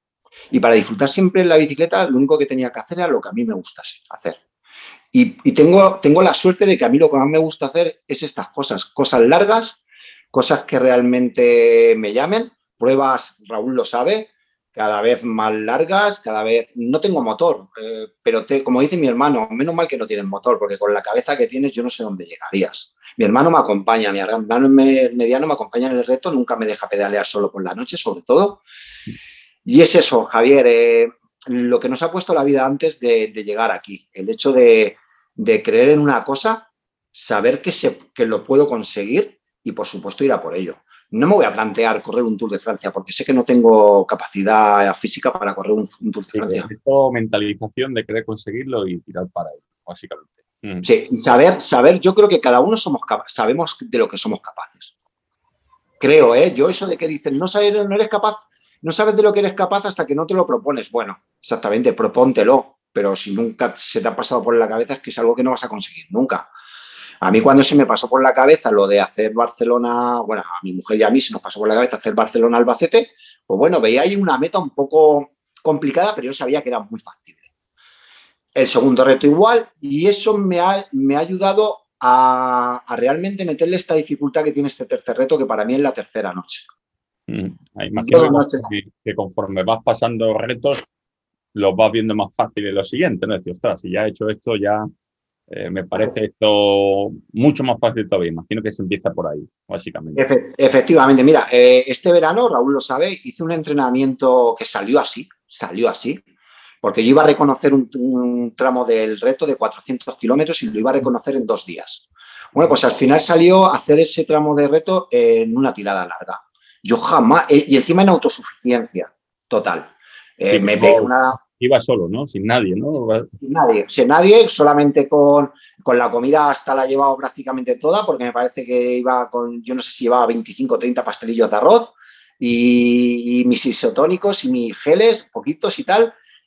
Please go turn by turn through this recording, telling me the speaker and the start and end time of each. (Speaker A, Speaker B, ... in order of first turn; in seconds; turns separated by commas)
Speaker A: 0.5-4.4, Speaker A: 5.1-9.8, Speaker A: 10.3-28.6, Speaker A: 29.6-46.7, Speaker B: 46.3-50.9, Speaker A: 50.8-54.9, Speaker A: 56.0-66.5, Speaker A: 67.2-77.4, Speaker A: 78.5-86.7, Speaker B: 87.3-90.8, Speaker A: 88.0-88.7, Speaker B: 91.5-94.9, Speaker B: 95.5-100.2, Speaker A: 100.1-106.2, Speaker A: 106.8-121.4, Speaker B: 120.5-123.3, Speaker A: 123.4-136.1